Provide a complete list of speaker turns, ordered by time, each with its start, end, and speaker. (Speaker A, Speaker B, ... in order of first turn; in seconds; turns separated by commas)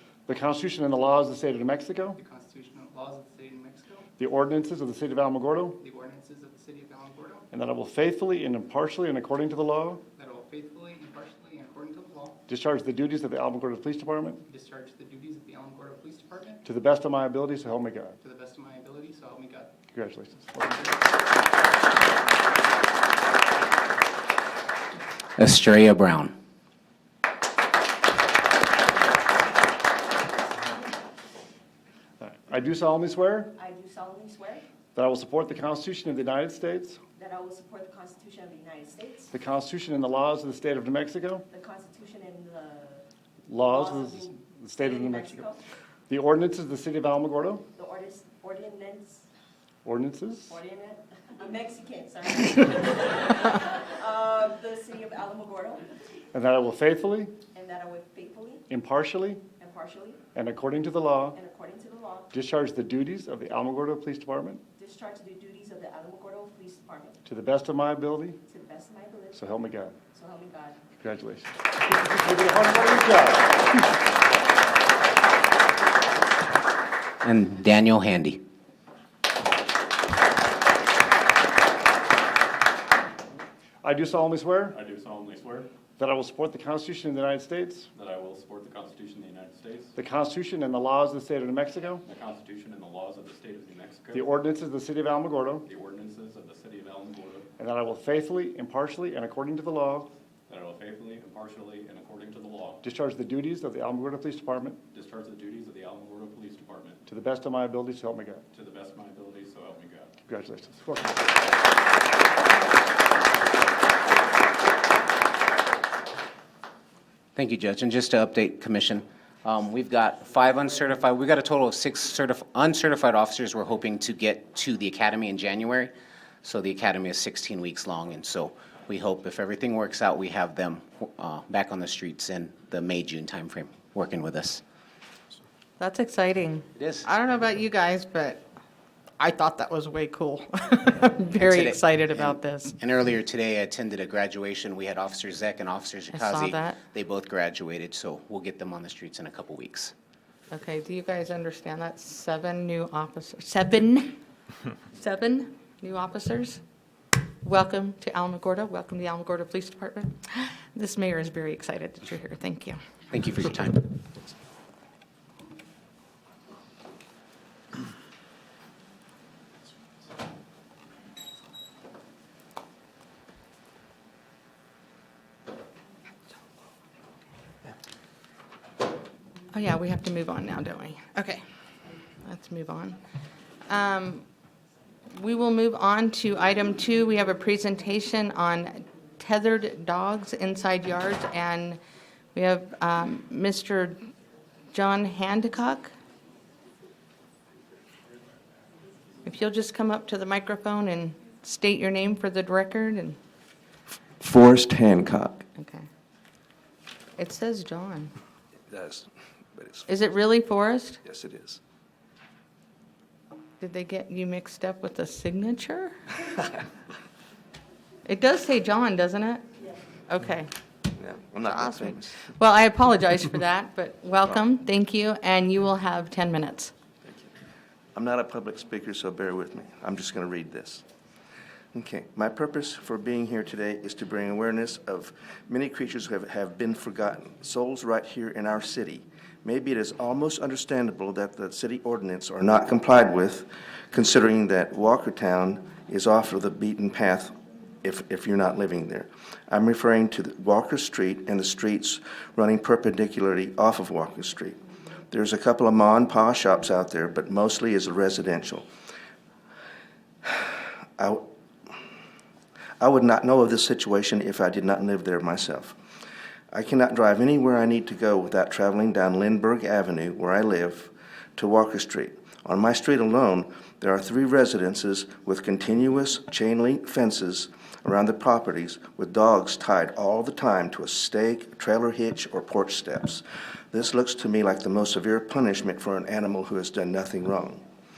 Speaker A: 0.3-2.2, Speaker B: 2.2-4.1, Speaker A: 4.2-5.8, Speaker B: 5.8-7.5, Speaker A: 7.5-10.0, Speaker B: 10.2-12.4, Speaker A: 12.5-14.4, Speaker B: 14.5-16.6, Speaker A: 16.6-18.2, Speaker B: 18.2-19.8, Speaker A: 19.9-20.9, Speaker B: 20.7-21.1, Speaker C: 25.4-26.3, Speaker A: 32.2-33.5, Speaker D: 33.6-34.6, Speaker A: 35.0-37.0, Speaker D: 37.2-39.3, Speaker A: 39.3-41.5, Speaker D: 41.5-43.0, Speaker A: 43.5-45.5, Speaker D: 43.6-45.6, Speaker A: 46.1-47.6, Speaker D: 47.8-49.3, Speaker A: 49.9-50.6, Speaker D: 50.5-55.9, Speaker A: 56.3-57.4, Speaker D: 57.5-58.6, Speaker A: 58.7-59.4, Speaker D: 59.6-60.2, Speaker A: 60.3-61.4, Speaker D: 61.3-62.3, Speaker A: 62.3-64.6, Speaker D: 64.8-67.2, Speaker A: 67.2-68.4, Speaker D: 68.5-69.6, Speaker A: 69.3-70.0, Speaker D: 70.1-70.8, Speaker A: 71.0-73.9, Speaker C: 77.2-78.4, Speaker A: 83.8-84.8, Speaker E: 84.7-85.7, Speaker A: 86.0-87.9, Speaker E: 88.0-89.9, Speaker A: 90.0-92.0, Speaker E: 92.0-94.3, Speaker A: 94.1-95.7, Speaker E: 95.7-97.5, Speaker A: 97.6-100.1, Speaker E: 100.5-102.8, Speaker A: 102.8-104.8, Speaker E: 104.9-107.0, Speaker A: 107.1-108.4, Speaker E: 108.5-110.1, Speaker A: 110.3-111.4, Speaker C: 117.3-125.9, Speaker C: 126.4-134.6, Speaker F: 135.8-138.4, Speaker C: 136.8-137.1, Speaker F: 139.2-142.8, Speaker C: 141.3-149.9, Speaker F: 146.1-146.8, Speaker F: 150.5-154.2, Speaker F: 154.9-156.6, Speaker F: 157.4-162.8, Speaker C: 163.1-163.8, Speaker F: 179.5-181.4, Speaker F: 182.2-183.0, Speaker F: 183.7-184.2, Speaker F: 185.1-191.8, Speaker F: 192.3-194.0, Speaker F: 194.7-195.9, Speaker F: 199.2-203.2, Speaker G: 204.2-205.4, Speaker F: 205.6-205.9, Speaker F: 207.2-208.1, Speaker G: 208.7-209.9, Speaker F: 209.9-211.0, Speaker G: 211.1-211.6, Speaker F: 213.6-216.0, Speaker F: 218.1-219.5, Speaker F: 220.1-220.5, Speaker G: 221.0-222.2, Speaker F: 221.5-226.7, Speaker G: 227.1-227.3, Speaker G: 227.9-230.8, Speaker G: 231.7-254.6, Speaker G: 255.1-258.7, Speaker G: 260.2-261.3, Speaker G: 262.8-265.8, Speaker G: 266.5-287.6